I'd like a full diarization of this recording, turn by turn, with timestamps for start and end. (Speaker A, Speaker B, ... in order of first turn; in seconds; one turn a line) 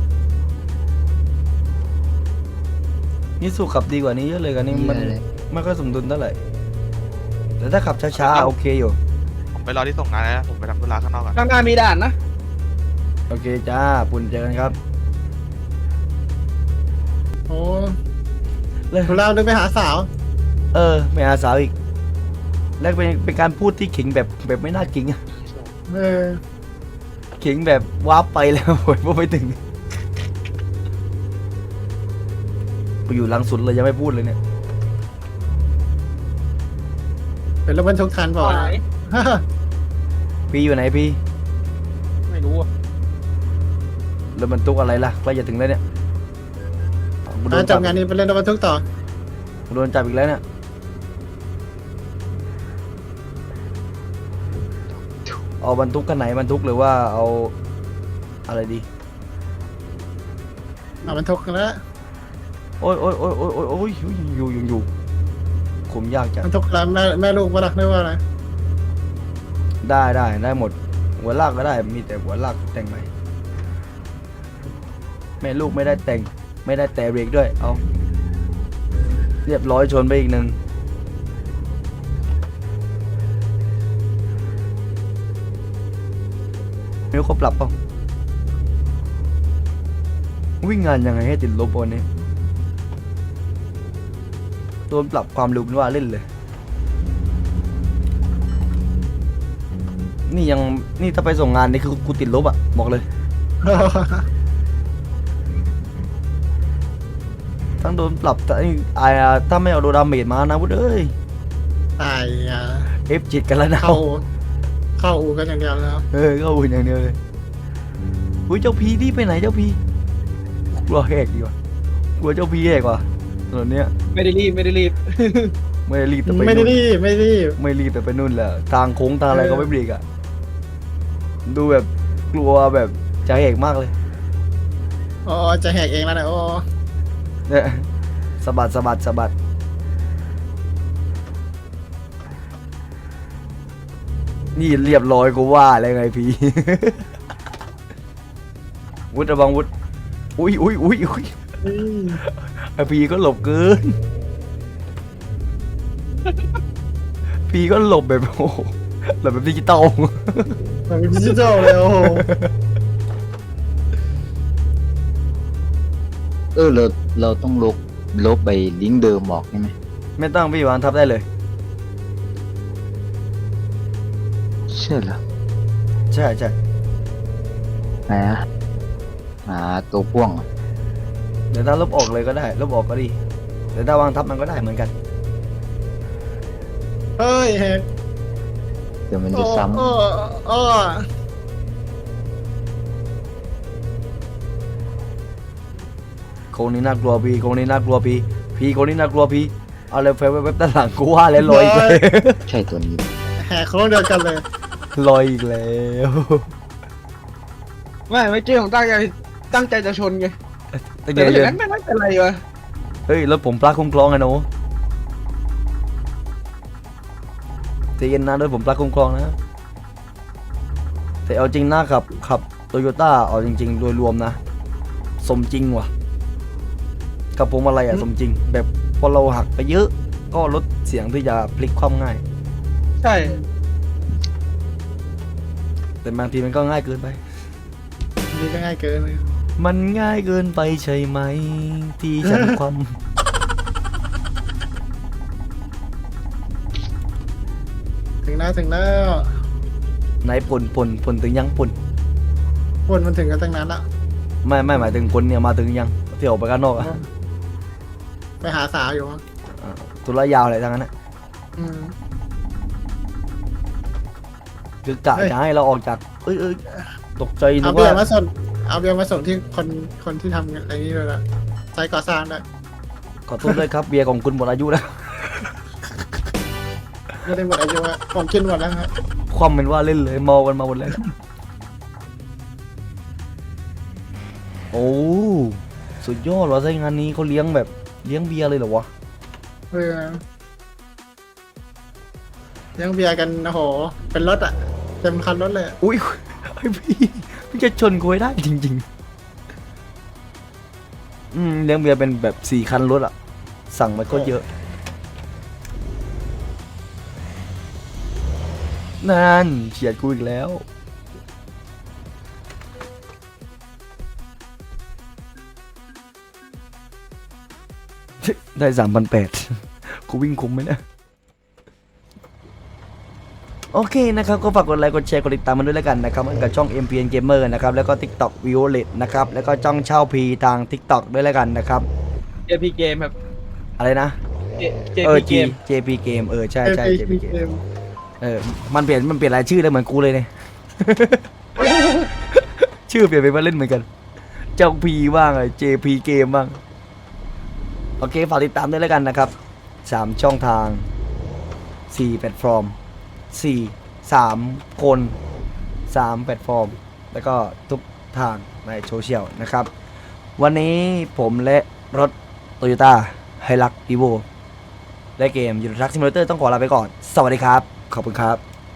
Speaker A: 3.4-6.3
Speaker B: 4.7-5.2
Speaker A: 7.6-9.0
Speaker C: 8.1-8.5
Speaker C: 9.5-11.3
Speaker D: 11.3-12.1
Speaker A: 13.3-14.7
Speaker E: 17.5-17.9
Speaker A: 18.9-19.2
Speaker E: 19.1-20.1
Speaker A: 20.7-21.7
Speaker A: 22.8-25.2
Speaker E: 25.9-26.4
Speaker A: 27.4-29.6
Speaker A: 33.1-34.4
Speaker E: 37.6-39.4
Speaker D: 38.4-38.8
Speaker A: 40.5-41.2
Speaker D: 42.3-42.7
Speaker A: 44.3-45.8
Speaker A: 47.3-47.9
Speaker E: 47.5-48.8
Speaker A: 49.7-50.4
Speaker A: 55.6-57.5
Speaker A: 58.5-58.9
Speaker E: 61.0-61.8
Speaker A: 62.8-64.9
Speaker A: 65.9-66.5
Speaker E: 66.4-68.2
Speaker A: 69.8-73.1
Speaker A: 75.4-77.8
Speaker A: 79.5-80.6
Speaker A: 87.1-87.7
Speaker A: 90.6-92.0
Speaker A: 94.9-96.2
Speaker A: 100.3-103.0
Speaker E: 103.6-104.2
Speaker A: 107.8-111.1
Speaker E: 112.0-112.9
Speaker A: 113.1-114.0
Speaker E: 113.8-114.2
Speaker E: 115.0-116.0
Speaker A: 116.1-117.2
Speaker A: 118.5-119.8
Speaker A: 120.7-121.5
Speaker A: 122.2-123.9
Speaker D: 124.1-125.5
Speaker A: 125.9-126.8
Speaker E: 126.2-127.5
Speaker A: 127.6-130.0
Speaker E: 129.3-129.7
Speaker A: 131.5-133.9
Speaker E: 135.2-136.6
Speaker A: 137.5-137.8
Speaker A: 138.4-139.3
Speaker A: 144.5-147.0
Speaker A: 149.1-149.7
Speaker A: 150.4-151.4
Speaker E: 151.6-152.2
Speaker A: 152.3-153.9
Speaker A: 157.5-160.6
Speaker E: 160.9-162.3
Speaker A: 161.3-162.5
Speaker B: 166.5-169.7
Speaker A: 170.2-171.2
Speaker B: 174.7-175.2
Speaker A: 176.1-176.5
Speaker B: 178.1-178.4
Speaker B: 179.4-180.4
Speaker A: 181.5-183.2
Speaker A: 183.7-184.9
Speaker E: 187.2-187.8
Speaker B: 189.1-189.9
Speaker E: 189.3-191.0
Speaker A: 196.5-202.4
Speaker E: 201.4-202.0
Speaker B: 202.5-203.1
Speaker E: 203.4-204.4
Speaker A: 204.9-206.5
Speaker D: 208.1-210.3
Speaker A: 211.0-211.6
Speaker D: 211.1-212.4
Speaker A: 213.1-214.4
Speaker A: 218.0-219.3
Speaker A: 221.2-224.4
Speaker A: 225.2-225.9
Speaker A: 227.3-232.2
Speaker D: 233.0-233.4
Speaker A: 236.0-237.2
Speaker E: 238.3-239.2
Speaker A: 239.6-243.0
Speaker E: 242.2-242.5
Speaker E: 248.2-249.3
Speaker A: 250.2-251.8
Speaker E: 252.9-253.8
Speaker A: 254.4-257.0
Speaker E: 256.8-257.0
Speaker E: 258.4-259.2
Speaker A: 259.6-260.9
Speaker E: 261.6-261.9
Speaker A: 264.8-266.6
Speaker A: 267.2-268.0
Speaker E: 267.6-271.2
Speaker E: 271.7-272.4
Speaker A: 273.3-275.5
Speaker E: 277.2-278.9
Speaker A: 279.3-281.1
Speaker A: 284.7-288.9
Speaker E: 289.7-290.2
Speaker E: 292.8-295.8
Speaker A: 295.8-298.8
Speaker A: 301.3-303.1
Speaker A: 303.7-304.4
Speaker A: 309.0-310.6
Speaker A: 318.2-320.8
Speaker A: 323.7-331.9
Speaker D: 332.5-333.1
Speaker A: 333.8-334.2
Speaker D: 334.6-335.5
Speaker A: 335.0-337.3
Speaker E: 336.6-337.6
Speaker A: 338.2-341.3
Speaker E: 341.6-342.0
Speaker A: 342.3-343.9
Speaker A: 344.6-346.6
Speaker A: 348.0-349.3
Speaker A: 349.8-350.9
Speaker A: 351.9-352.8
Speaker A: 353.3-355.2
Speaker A: 355.9-359.7
Speaker A: 360.4-364.2
Speaker A: 365.2-368.4